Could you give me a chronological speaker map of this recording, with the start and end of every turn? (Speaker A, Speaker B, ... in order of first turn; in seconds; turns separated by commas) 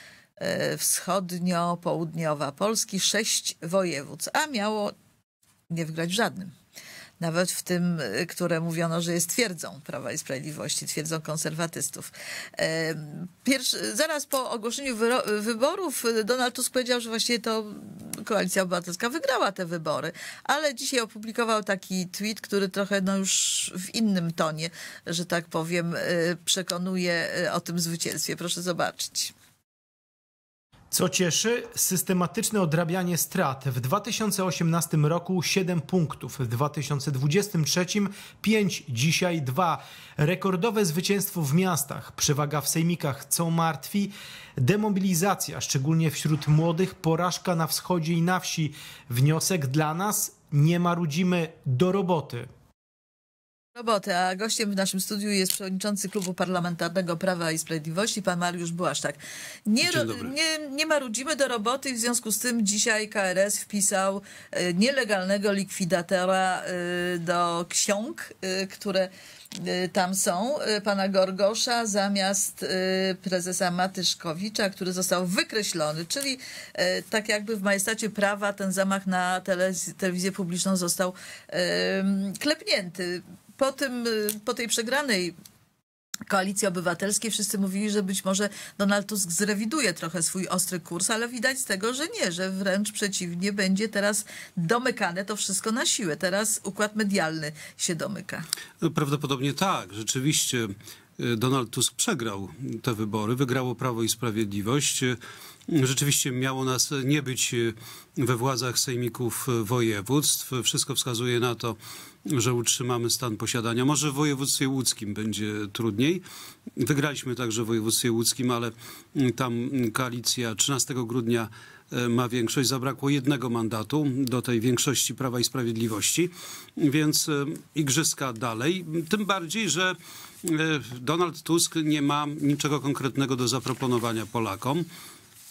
Speaker A: 0.4-4.9, Speaker A: 5.7-6.5, Speaker A: 7.2-29.3, Speaker B: 30.9-52.5, Speaker A: 53.8-85.3, Speaker C: 59.8-60.3, Speaker A: 86.3-98.5, Speaker C: 98.8-105.2, Speaker C: 105.7-116.2, Speaker C: 116.8-134.9